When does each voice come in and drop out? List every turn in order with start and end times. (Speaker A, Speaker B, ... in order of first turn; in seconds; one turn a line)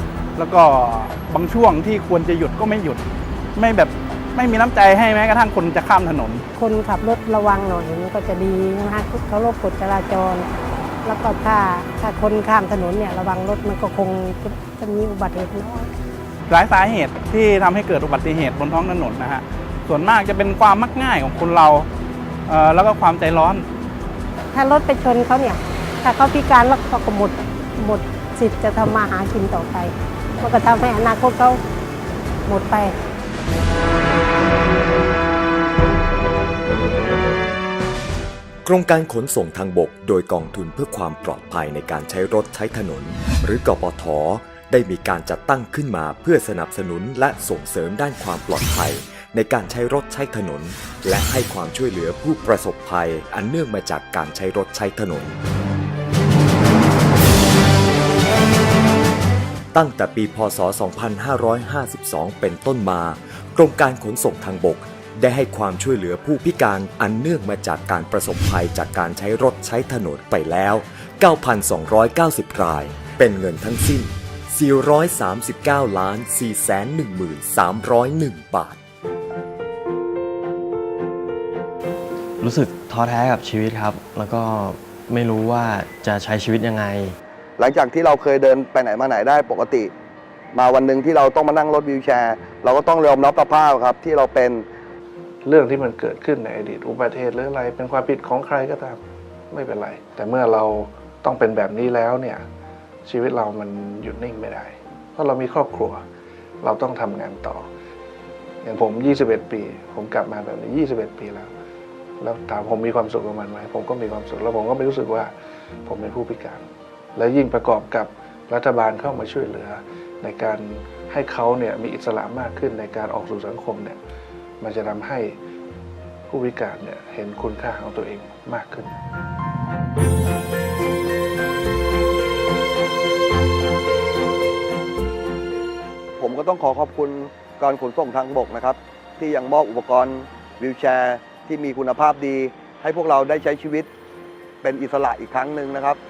Speaker A: 0.4-3.0
Speaker A: 3.5-6.4
Speaker B: 6.5-10.5
Speaker B: 11.0-15.9
Speaker A: 16.5-21.9
Speaker A: 22.5-23.6
Speaker B: 24.5-31.6
Speaker B: 32.5-32.9
Speaker C: 38.6-55.4
Speaker C: 59.7-78.8
Speaker D: 82.4-87.2
Speaker E: 87.6-89.9
Speaker E: 90.5-94.6
Speaker F: 95.4-102.5
Speaker F: 103.0-106.0
Speaker F: 106.6-107.7
Speaker F: 108.6-111.5
Speaker F: 112.2-115.3
Speaker F: 115.8-124.0
Speaker F: 124.6-125.4
Speaker F: 126.3-129.0
Speaker E: 136.2-143.9
Speaker E: 144.6-146.0